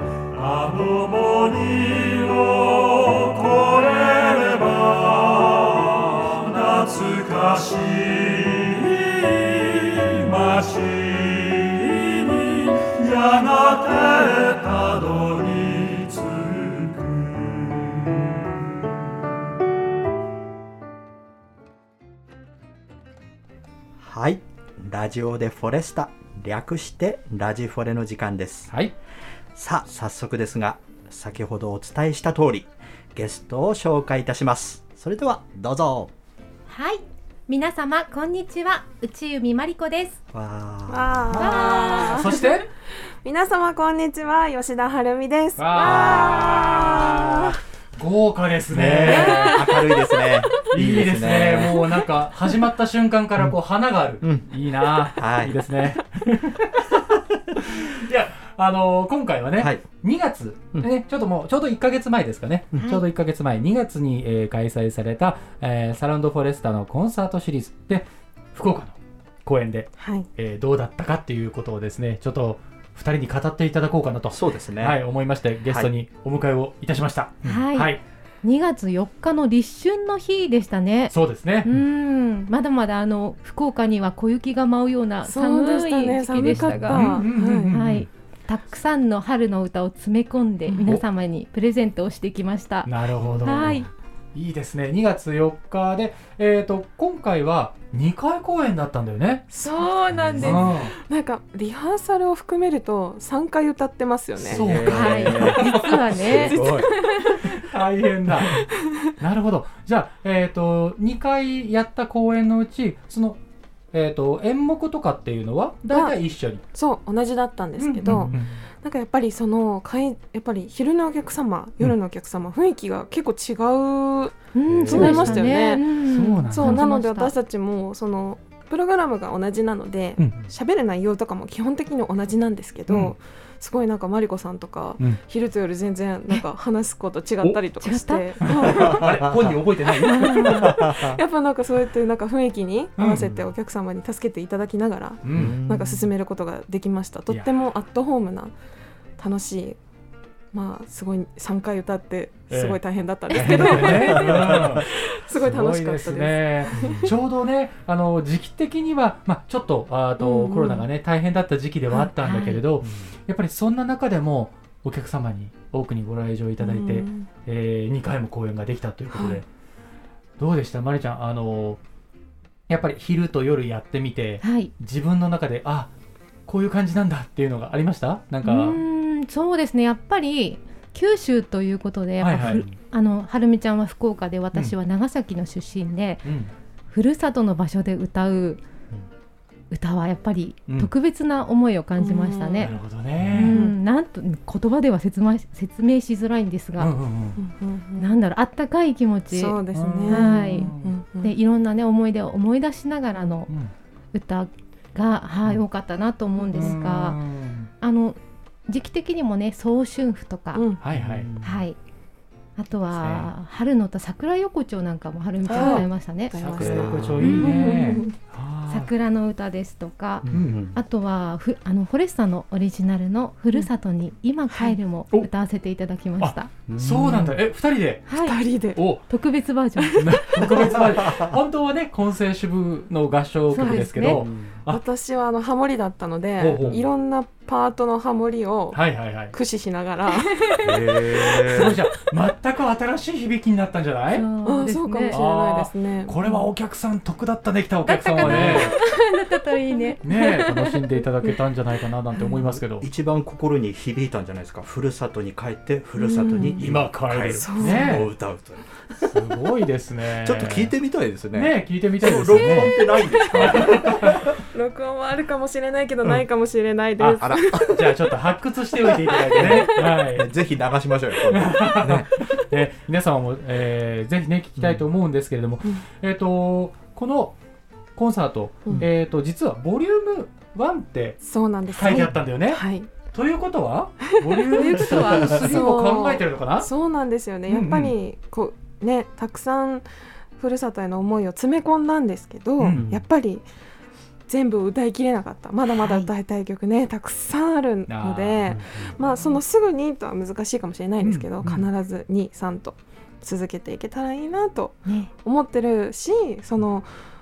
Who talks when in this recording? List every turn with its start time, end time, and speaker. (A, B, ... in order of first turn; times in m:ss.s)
0:00.3-0:18.1 A
0:24.0-0:28.7 B
0:29.6-0:36.1 B
0:36.7-0:40.2 C
0:40.3-0:41.6 B
0:40.9-0:42.6 D
0:41.3-0:42.7 E
0:41.4-0:42.3 C
0:43.2-0:47.6 D
0:45.6-0:49.8 E
0:48.7-0:52.0 B
0:49.1-0:50.3 D
0:50.6-0:57.0 E
0:54.2-0:54.5 B
0:55.1-0:55.6 B
0:57.6-1:18.0 E
0:59.6-0:59.9 B
1:02.7-1:03.0 B
1:10.0-1:10.3 D
1:14.3-1:15.0 B
1:17.4-1:33.9 C
1:21.1-1:21.7 E
1:25.2-1:27.7 D
1:26.4-1:28.1 E
1:32.8-1:39.5 E
1:39.5-1:44.7 D
1:40.2-1:40.7 B
1:40.4-1:41.0 E
1:44.4-1:46.9 B
1:44.4-1:46.0 E
1:44.8-1:47.3 C
1:46.3-1:47.6 D
1:47.6-1:48.6 E
1:48.3-1:48.5 B
1:49.2-1:53.4 E
1:53.9-1:56.6 E
1:55.9-1:56.2 D
1:56.7-2:05.9 D
1:57.8-1:58.6 E
1:58.1-1:58.4 B
2:04.5-2:07.3 C
2:04.7-2:05.2 B
2:04.9-2:06.8 E
2:06.5-2:19.2 D
2:10.2-2:10.4 E
2:17.8-2:18.8 C
2:18.4-2:21.2 E
2:19.0-2:19.6 B
2:20.0-2:28.5 D
2:20.1-2:20.7 C
2:20.7-2:21.0 B
2:23.0-2:23.3 E
2:25.2-2:25.6 E
2:25.3-2:26.1 B
2:29.2-2:29.8 D
2:30.5-2:37.2 D
2:32.5-2:49.5 E
2:33.6-2:34.8 B
2:36.8-2:37.1 B
2:40.2-2:40.9 D
2:42.2-2:42.6 C
2:42.8-2:43.1 B
2:46.6-2:47.3 D
2:49.1-2:49.4 D
2:50.4-2:51.8 E
2:52.7-2:55.9 E
2:54.4-2:54.7 C
2:56.5-2:58.8 E
2:58.4-3:06.3 C
3:02.2-3:02.7 E
3:06.2-3:06.5 E
3:06.9-3:08.6 C
3:09.7-3:12.7 C
3:12.0-3:12.8 D
3:12.6-3:13.6 E
3:13.4-3:13.8 D
3:13.4-3:16.9 C
3:16.8-3:17.4 E
3:17.4-3:18.1 D
3:18.0-3:23.5 C
3:19.3-3:21.3 D
3:19.7-3:21.0 E
3:24.1-3:27.2 C
3:26.5-3:27.7 E
3:27.8-3:30.7 C
3:30.6-3:30.8 D
3:30.8-3:31.3 E
3:30.9-3:31.6 B
3:31.4-3:31.8 C
3:32.6-3:38.0 C
3:32.9-3:33.3 E
3:35.5-3:38.2 D
3:35.5-3:38.9 E
3:36.6-3:37.4 B
3:38.7-3:46.5 C
3:40.2-3:40.8 B
3:40.3-3:40.6 E
3:46.2-3:48.1 E
3:46.7-3:47.4 B
3:48.1-3:50.0 C
3:48.2-3:48.8 D
3:48.8-3:49.0 E
3:49.8-3:50.8 D
3:50.0-3:54.8 E
3:51.0-3:51.3 B
3:53.5-3:54.2 C
3:54.0-3:54.6 B
3:54.7-4:01.4 D
3:56.4-3:56.8 E
3:58.7-3:59.3 E
4:00.6-4:01.8 B
4:01.4-4:04.3 E
4:04.1-4:05.2 C
4:04.4-4:06.4 D
4:05.1-4:08.8 E
4:07.8-4:10.8 C
4:08.2-4:08.8 D
4:10.0-4:12.9 E
4:12.6-4:18.7 B
4:16.0-4:16.7 D
4:16.6-4:18.1 E
4:17.4-4:18.0 D
4:19.0-4:20.7 E
4:20.2-4:24.3 B
4:21.3-4:24.4 E
4:22.4-4:28.1 D
4:27.0-4:30.3 E
4:28.8-4:29.9 D
4:29.4-4:32.2 B
4:31.3-4:37.4 E
4:34.6-4:34.8 B
4:38.0-4:46.7 E
4:41.2-4:42.9 D
4:41.8-4:42.1 C
4:44.1-4:49.8 D
4:44.5-4:45.7 C
4:47.5-4:47.9 E
4:50.4-4:53.4 D
4:52.6-4:52.9 E
4:52.6-4:53.0 B
4:54.3-5:06.9 D
4:55.7-4:56.1 C
4:57.9-4:58.6 E
4:58.5-4:58.9 B
5:01.0-5:01.5 E
5:04.8-5:05.1 C